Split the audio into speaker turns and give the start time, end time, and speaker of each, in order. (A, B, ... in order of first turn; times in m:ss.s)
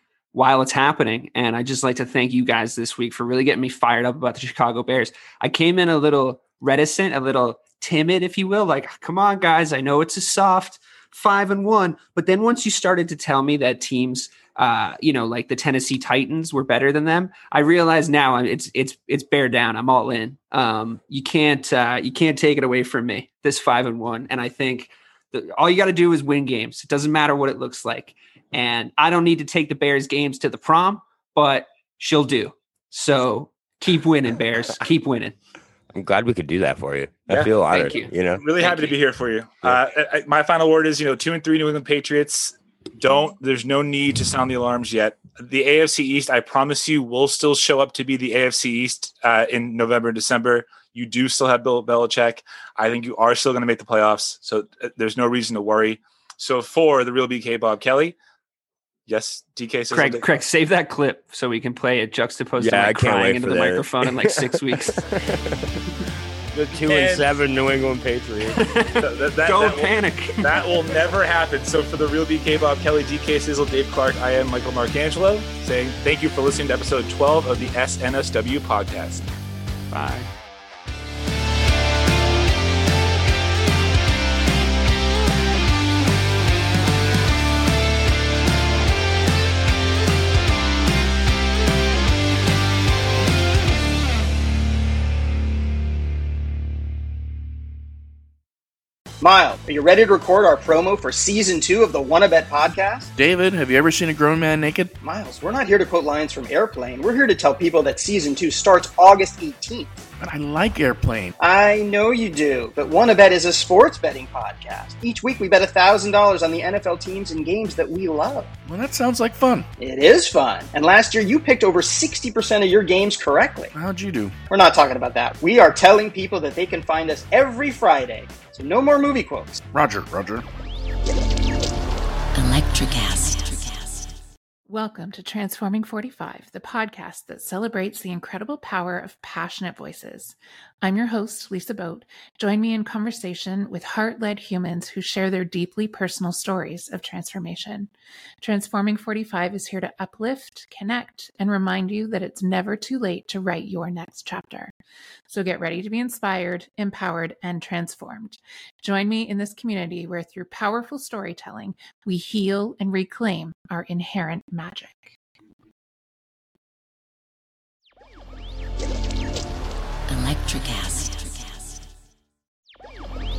0:00.3-0:35.3 A
0:35.9-0:38.4 B
0:37.7-0:38.9 A
0:38.3-0:58.2 C
0:59.1-1:00.2 C
0:59.9-1:05.1 A
1:02.6-1:05.6 B
1:06.5-1:08.6 B
1:06.8-1:07.2 C
1:08.5-1:10.7 A
1:09.0-1:19.2 C
1:19.9-1:20.3 A
1:39.2-1:43.1 D
1:43.1-1:44.9 E
1:45.0-1:50.0 D
1:50.2-1:51.4 E
1:51.4-1:58.5 D
1:58.6-1:59.7 E
1:59.8-2:03.7 D
2:03.7-2:04.3 E
2:04.5-2:09.6 D
2:09.7-2:10.4 E
2:12.3-2:14.1 F
2:14.7-2:34.7 G
2:35.3-2:45.2 G
2:50.1-2:51.8 F